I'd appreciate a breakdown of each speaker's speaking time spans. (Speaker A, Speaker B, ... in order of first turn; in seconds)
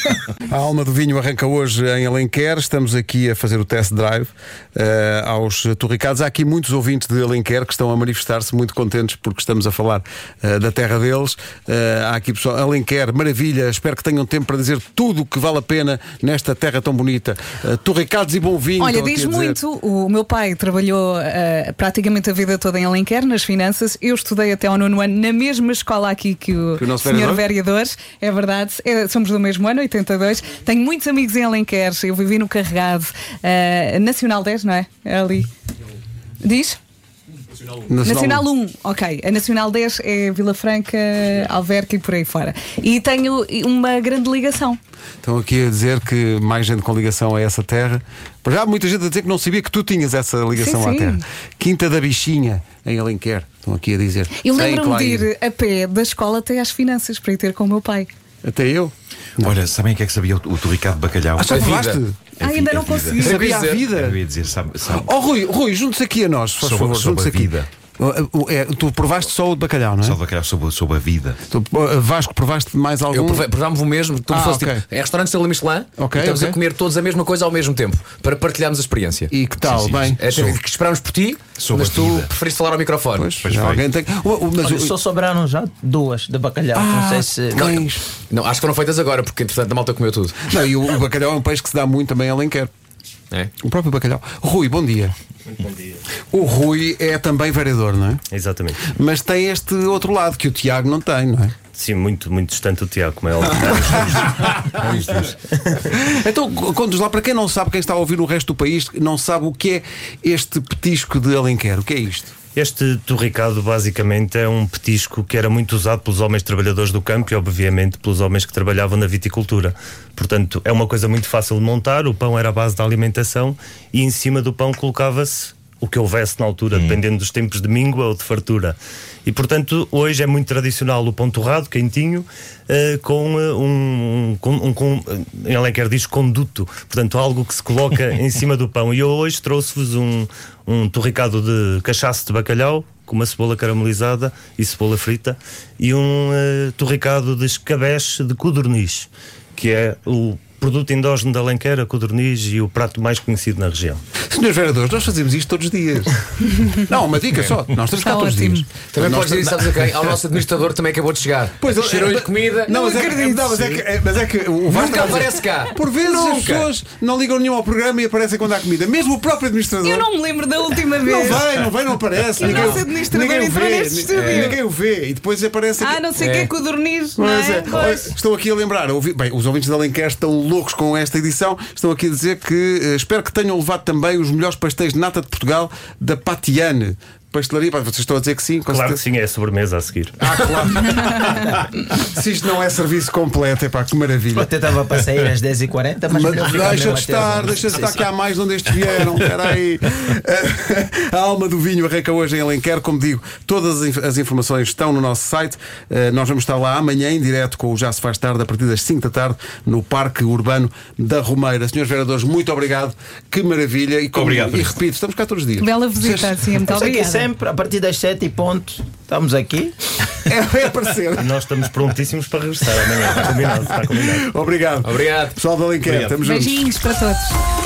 Speaker A: 0.4-19.6, 26.8-27.4, 37.9-38.5, 45.2-55.3, 58.4-59.5, 61.4-62.2, 63.2-64.2, 64.9-70.2, 71.5-73.5, 74.3-74.8, 76.0-76.6, 79.3-80.5, 83.2-84.9, 86.7-88.0, 90.5-92.7, 93.6-95.1, 96.3-98.2, 98.8-101.5, 104.4-105.3, 105.8-112.3, 154.3-160.2, 161.6-170.1, 170.8-176.1, 177.2-189.0, 190.2-194.5, 196.1-216.4, 220.1-221.3, 223.3-226.7
Speaker B: 18.8-35.5, 36.4-36.8, 38.0-44.8, 50.6-51.2, 54.4-58.1, 62.4-63.5, 157.9-158.8, 162.7-163.7, 169.8-171.6, 172.3-174.6, 175.8-178.1, 215.6-217.2, 226.2-227.4
Speaker C: 59.4-61.5, 62.4-63.0, 63.9-65.0, 66.6-67.7, 70.0-71.4, 81.6-82.3, 83.4-83.8
Speaker D: 61.4-62.0, 62.6-63.9, 73.1-79.3, 80.1-83.3, 88.3-90.4, 158.8-162.8, 164.7-166.7, 174.1-174.5, 176.2-176.5, 224.8-225.4, 225.9-226.2
Speaker E: 84.6-87.8, 194.3-198.0, 216.6-219.7
Speaker F: 95.5-96.0, 98.3-98.8, 101.7-105.7, 112.5-154.0, 188.7-190.4, 221.2-224.3